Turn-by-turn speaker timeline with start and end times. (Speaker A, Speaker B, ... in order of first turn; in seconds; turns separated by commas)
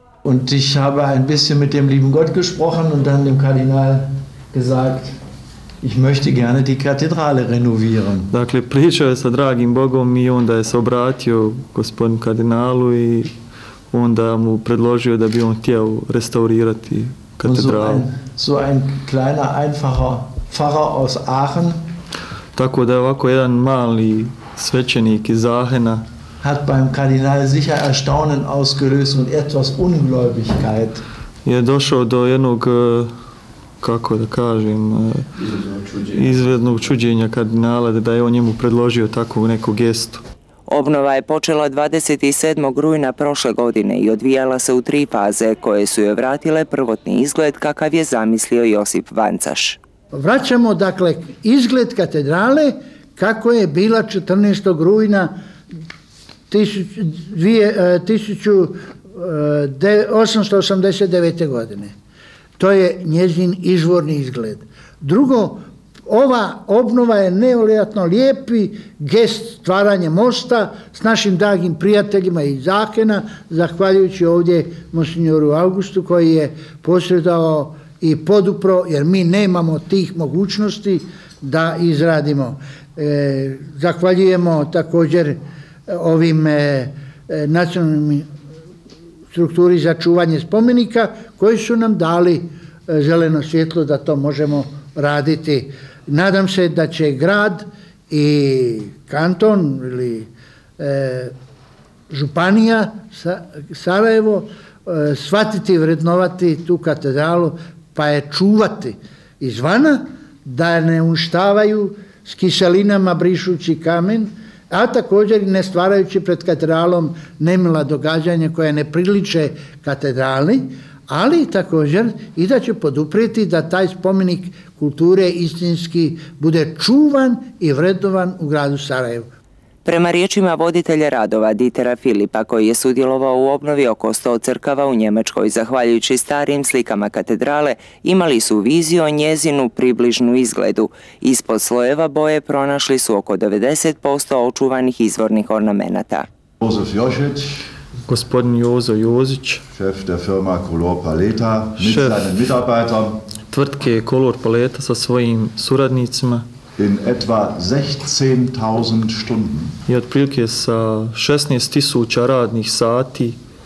Speaker A: 0.2-5.2, Speaker A: 5.8-8.3, Speaker B: 8.3-13.3, Speaker B: 13.9-18.0, Speaker A: 17.4-21.8, Speaker B: 22.6-26.0, Speaker A: 26.4-31.0, Speaker B: 31.4-33.1, Speaker B: 33.8-35.2, Speaker B: 36.0-40.2, Speaker C: 40.7-49.8, Speaker D: 50.1-55.3, Speaker D: 56.5-61.9, Speaker D: 62.6-88.2, Speaker D: 89.3-101.3, Speaker D: 102.1-129.2, Speaker C: 129.8-146.2, Speaker E: 146.6-147.7, Speaker B: 148.1-149.6, Speaker E: 149.8-153.2, Speaker B: 151.8-152.3, Speaker B: 153.5-156.4, Speaker E: 156.8-159.7, Speaker B: 159.9-163.4